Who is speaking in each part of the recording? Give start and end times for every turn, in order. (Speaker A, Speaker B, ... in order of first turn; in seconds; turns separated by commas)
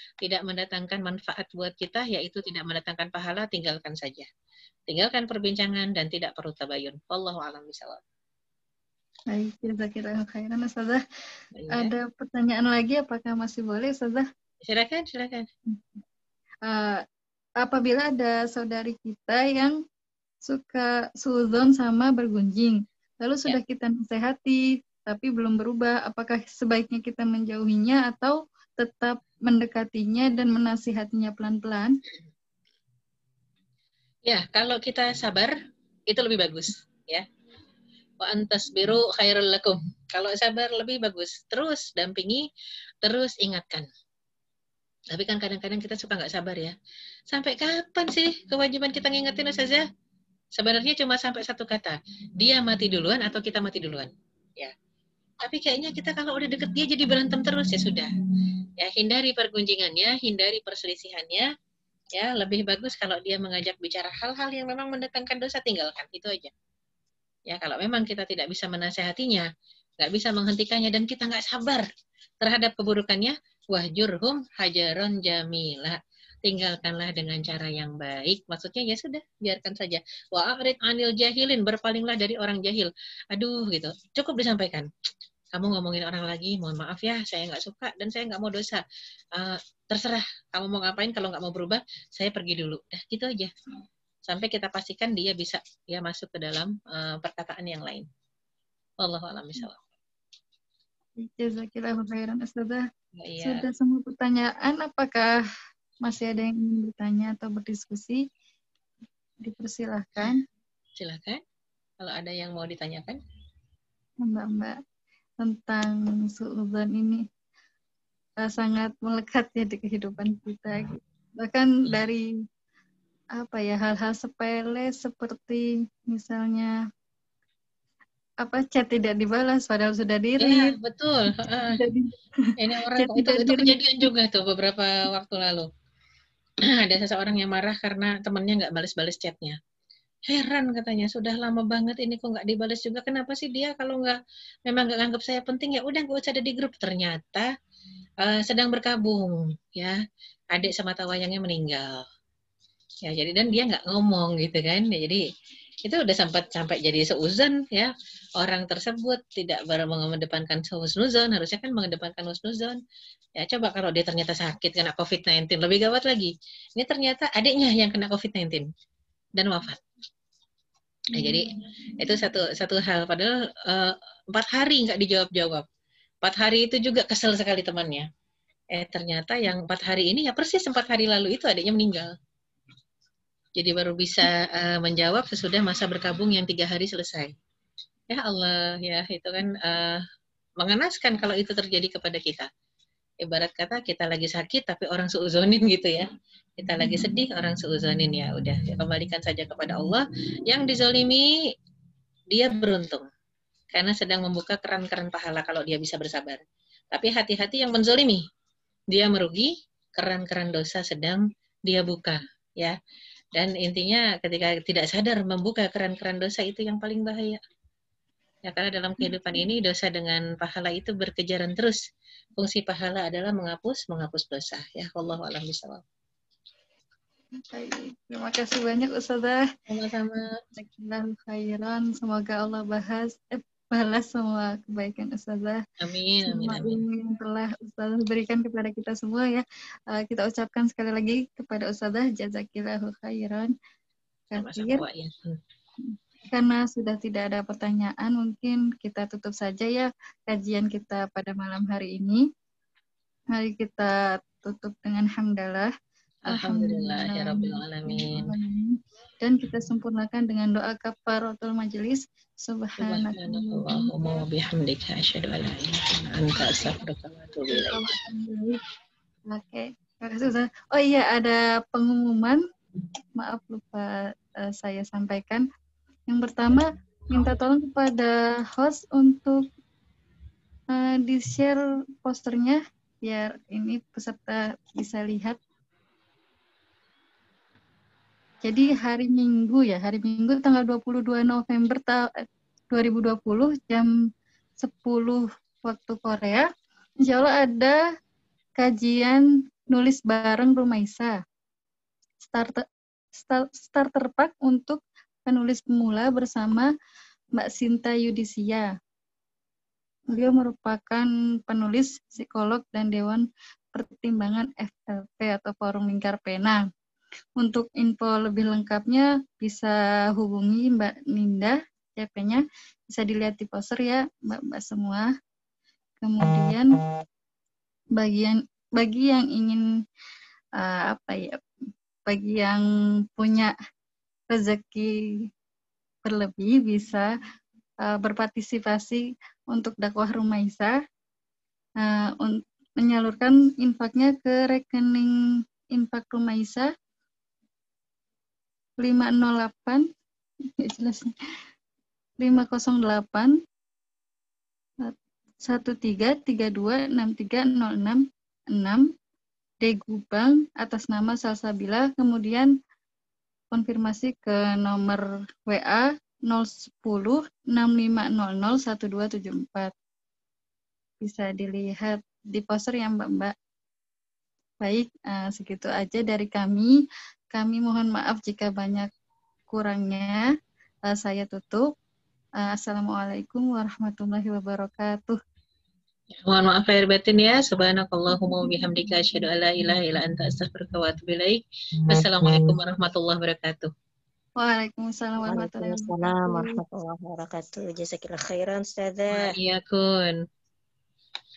Speaker A: 0.2-4.3, Speaker A: 4.9-8.0, Speaker B: 9.3-11.0, Speaker A: 11.6-11.9, Speaker B: 11.7-14.3, Speaker A: 14.6-15.5, Speaker B: 15.7-16.0, Speaker B: 16.7-17.0, Speaker B: 17.6-19.8, Speaker B: 20.5-32.0, Speaker A: 34.3-35.5, Speaker A: 36.1-37.3, Speaker A: 38.2-42.5, Speaker A: 43.0-43.9, Speaker A: 45.1-46.7, Speaker A: 47.3-49.9, Speaker A: 50.6-54.7, Speaker A: 55.4-58.1, Speaker A: 58.8-61.5, Speaker A: 62.1-66.5, Speaker A: 67.5-69.5, Speaker A: 70.0-71.9, Speaker A: 72.4-84.9, Speaker A: 85.5-88.8, Speaker A: 89.3-93.5, Speaker A: 94.3-98.1, Speaker A: 99.0-99.8, Speaker B: 101.2-102.8, Speaker A: 103.2-103.6, Speaker B: 103.4-105.3, Speaker B: 106.1-108.2, Speaker B: 109.4-110.4, Speaker A: 111.0-111.4, Speaker A: 112.0-113.2, Speaker B: 114.2-114.8, Speaker B: 115.4-117.2, Speaker B: 118.4-122.3, Speaker B: 123.4-126.7, Speaker B: 128.4-130.8, Speaker A: 130.4-131.8, Speaker B: 131.7-133.8, Speaker A: 132.6-135.7, Speaker A: 136.8-139.6, Speaker A: 140.3-147.5, Speaker A: 148.2-150.0, Speaker A: 150.5-152.0, Speaker A: 153.1-155.2, Speaker A: 155.8-162.8, Speaker A: 163.4-168.7, Speaker A: 169.4-169.8, Speaker A: 171.1-175.6, Speaker B: 171.2-171.4, Speaker A: 176.2-178.1, Speaker A: 178.7-182.1, Speaker A: 183.6-187.3, Speaker A: 188.1-190.0, Speaker A: 190.6-192.5, Speaker A: 193.2-201.3, Speaker A: 202.3-203.1, Speaker A: 203.7-208.2, Speaker A: 208.9-212.8, Speaker A: 213.3-217.4, Speaker A: 218.5-221.8, Speaker A: 222.4-225.8, Speaker B: 227.5-229.4, Speaker A: 229.7-230.3, Speaker B: 230.6-235.6, Speaker A: 235.8-236.8, Speaker B: 236.3-243.5, Speaker B: 244.3-244.8, Speaker A: 244.4-245.4, Speaker B: 245.9-252.3, Speaker B: 253.3-255.7, Speaker A: 256.3-258.3, Speaker B: 256.3-263.9, Speaker A: 262.8-267.9, Speaker B: 267.5-268.6, Speaker B: 269.3-272.4, Speaker B: 273.2-273.9, Speaker B: 274.4-275.5, Speaker B: 276.1-279.4, Speaker B: 280.7-285.4, Speaker B: 288.5-292.1, Speaker B: 292.7-293.9, Speaker B: 294.6-296.4, Speaker B: 297.1-297.8, Speaker B: 298.6-301.1, Speaker B: 302.2-302.6, Speaker B: 303.2-306.7, Speaker B: 307.4-308.7, Speaker B: 310.1-316.6, Speaker B: 317.4-325.1, Speaker B: 326.0-326.8, Speaker B: 328.0-329.6, Speaker B: 330.6-331.4, Speaker B: 332.1-332.6, Speaker B: 333.2-333.5, Speaker B: 334.3-335.0, Speaker B: 336.1-337.1, Speaker B: 337.9-340.8, Speaker B: 341.8-345.1, Speaker B: 345.8-346.7, Speaker B: 348.8-349.9, Speaker B: 350.6-351.1, Speaker B: 352.2-353.4, Speaker B: 355.4-358.0, Speaker B: 358.6-358.8, Speaker B: 359.6-362.5, Speaker B: 363.5-369.7, Speaker B: 371.0-373.3, Speaker B: 374.6-376.8, Speaker B: 377.3-378.9, Speaker B: 379.5-380.2, Speaker B: 380.9-381.7, Speaker B: 382.4-385.2, Speaker A: 386.2-393.7, Speaker B: 394.4-396.6, Speaker C: 395.3-399.4, Speaker A: 399.1-400.2